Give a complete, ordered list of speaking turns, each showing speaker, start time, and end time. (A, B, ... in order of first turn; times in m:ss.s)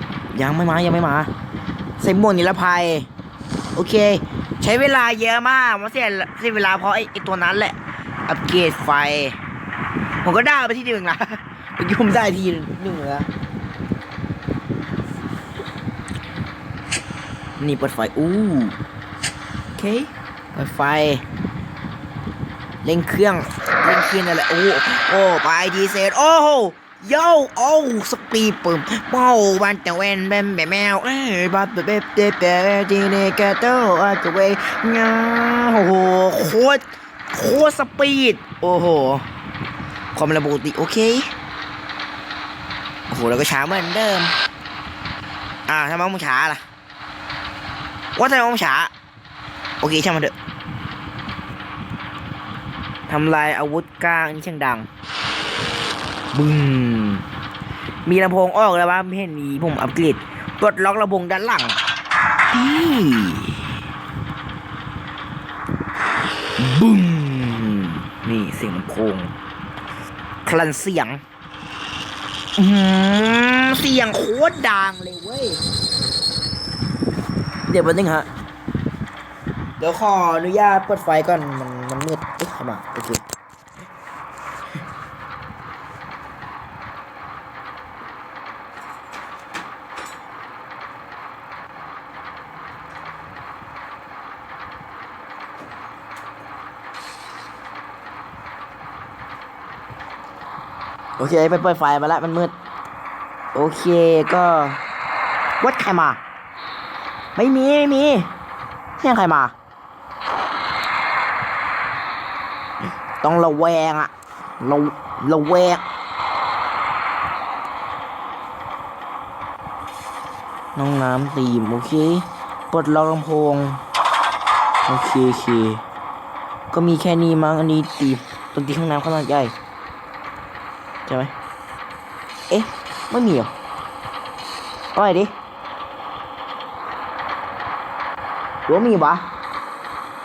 0:00.3-0:01.3 A
0:02.0-0:03.1 A
0:03.7-0:07.8 A
0:08.3-0:09.4 A
0:10.2-0:13.3 A
0:17.6-0:18.8 A
0:19.8-0:21.2 A
0:22.8-0:39.2 A
0:40.1-0:41.3 A
0:43.1-0:44.3 A
0:45.7-0:46.6 A
0:48.2-0:48.9 A
0:49.8-0:50.3 A
0:53.1-0:54.9 A
0:56.3-0:57.2 A
0:58.0-1:01.8 A
1:02.5-1:03.7 A
1:06.6-1:09.3 A
1:10.4-1:11.2 A
1:12.6-1:15.6 A
1:17.7-1:18.3 A
1:19.8-1:23.2 A
1:41.2-1:42.5 A
1:43.5-1:44.8 A
1:45.6-1:46.2 A
1:47.4-1:48.3 A
1:49.0-1:49.5 A
1:53.2-1:55.8 A
2:00.8-2:03.8 A
2:04.9-2:05.8 A
2:06.7-2:09.5 A
2:11.0-2:11.3 A
2:12.5-2:13.5 A
2:14.9-2:15.3 A
2:18.7-2:19.3 A